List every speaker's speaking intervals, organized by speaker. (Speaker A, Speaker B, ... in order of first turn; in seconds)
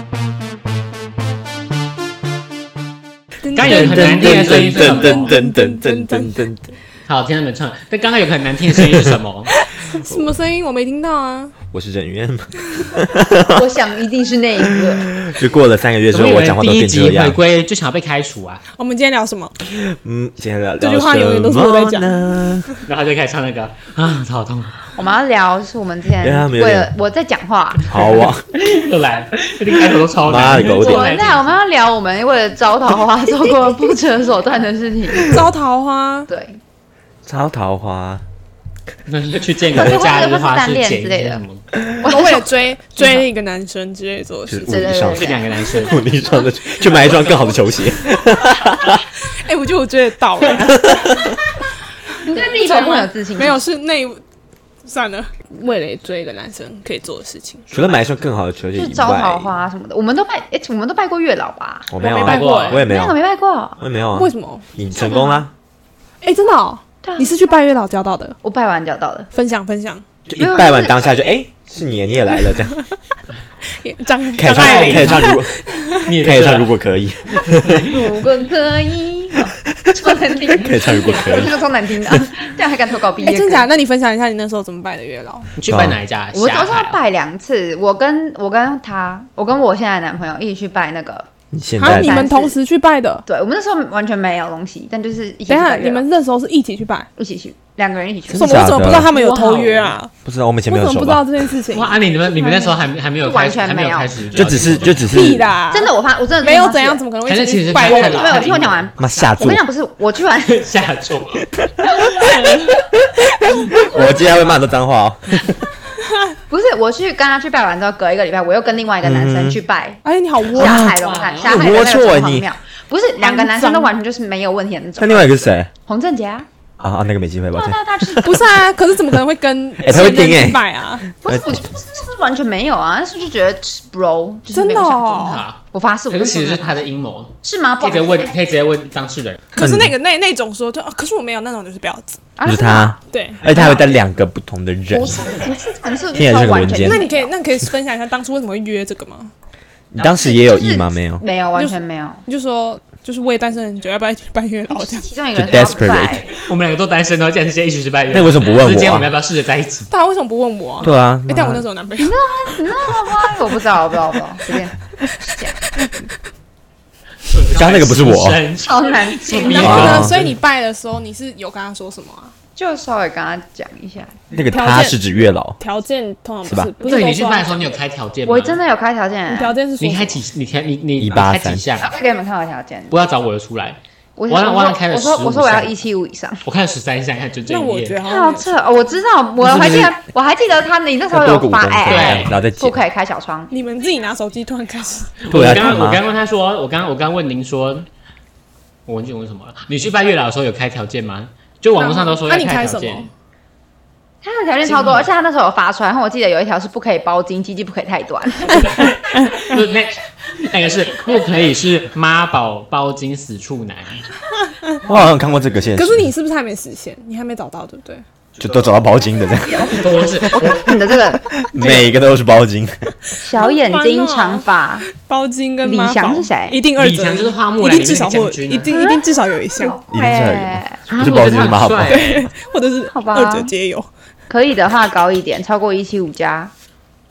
Speaker A: 3.4-6.3, 9.7-11.5, 18.7-19.5, 20.8-22.1, 35.2-36.3, 42.0-45.0, 49.3-50.9, 52.2-54.2, 54.8-57.7, 62.0-62.8, 64.1-64.7, 66.2-68.4, 69.3-70.0, 73.7-76.1, 83.2-85.5, 91.8-93.2, 95.5-97.1, 98.4-100.1, 100.7-102.0, 105.1-108.5, 120.0-120.8, 123.2-123.9, 128.2-131.1, 134.5-135.4, 139.5-142.2, 143.1-143.4, 146.8-149.3, 151.6-155.1, 159.9-162.2, 169.3-172.3, 174.5-177.7, 179.3-180.2, 187.5-188.7, 193.5-195.2, 201.8-203.1, 215.8-218.0, 223.3-229.8, 231.8-233.9
Speaker B: 3.5-5.3, 7.1-9.5, 16.1-18.6, 22.9-24.8, 28.5-31.5, 39.1-41.6, 45.1-46.0, 46.8-47.8, 62.0-62.8, 74.4-75.4, 76.0-76.7, 85.5-87.0, 101.7-105.1, 107.2-108.9, 110.4-111.5, 112.1-112.7, 120.7-121.6, 135.2-139.4, 156.3-159.9, 167.3-170.3, 176.8-178.6, 179.8-181.9, 182.9-185.8, 186.4-188.0, 191.9-192.3, 195.2-197.9, 198.9-203.1, 204.6-205.1, 208.5-214.0, 219.6-220.7, 226.7-228.7, 230.9-232.3
Speaker C: 3.6-6.7, 11.7-13.6, 14.9-17.4, 19.6-22.7, 26.2-26.9, 27.9-28.4, 30.2-31.2, 37.2-38.2, 44.5-49.0, 50.6-51.4, 57.7-59.5, 61.9-63.2, 63.8-65.5, 70.3-72.8, 74.3-75.5, 76.1-77.9, 79.8-81.6, 85.7-86.0, 91.5-92.3, 98.3-99.1, 100.2-101.5, 104.3-105.5, 109.0-109.6, 111.8-112.3, 113.4-115.6, 119.0-119.6, 120.5-122.5, 125.0-125.7, 126.8-127.8, 129.8-130.6, 131.2-131.6, 139.6-139.9, 142.4-145.3, 146.1-147.0, 149.9-151.2, 155.3-156.2, 158.1-159.1, 160.8-161.7, 167.5-168.4, 169.6-170.3, 174.3-175.6, 176.4-176.7, 181.0-181.7, 189.4-189.9, 191.1-192.8, 195.3-196.0, 214.8-216.1, 218.4-222.9, 229.9-232.0
Speaker D: 13.5-15.1, 24.9-27.9, 30.6-35.4, 36.3-36.6, 39.7-41.4, 42.0-43.3, 44.6-45.7, 52.2-53.6, 58.8-61.9, 62.6-63.8, 64.9-65.5, 67.0-67.3, 68.4-69.3, 70.3-71.0, 77.8-83.7, 86.3-91.3, 91.8-92.6, 93.2-96.0, 97.2-100.0, 102.3-104.1, 105.7-107.0, 107.8-110.6, 113.6-114.4, 116.5-126.5, 127.5-128.5, 131.2-136.8, 137.4-138.3, 142.4-144.0, 144.9-147.3, 150.0-152.2, 154.7-156.3, 162.0-165.5, 168.6-170.0, 172.6-174.2, 178.2-179.6, 181.8-183.0, 184.2-186.4, 188.0-193.5, 204.2-208.8, 219.5-221.9, 223.2-224.9, 225.6-226.6, 228.7-229.0, 229.6-231.1, 232.9-233.5, 234.3-236.5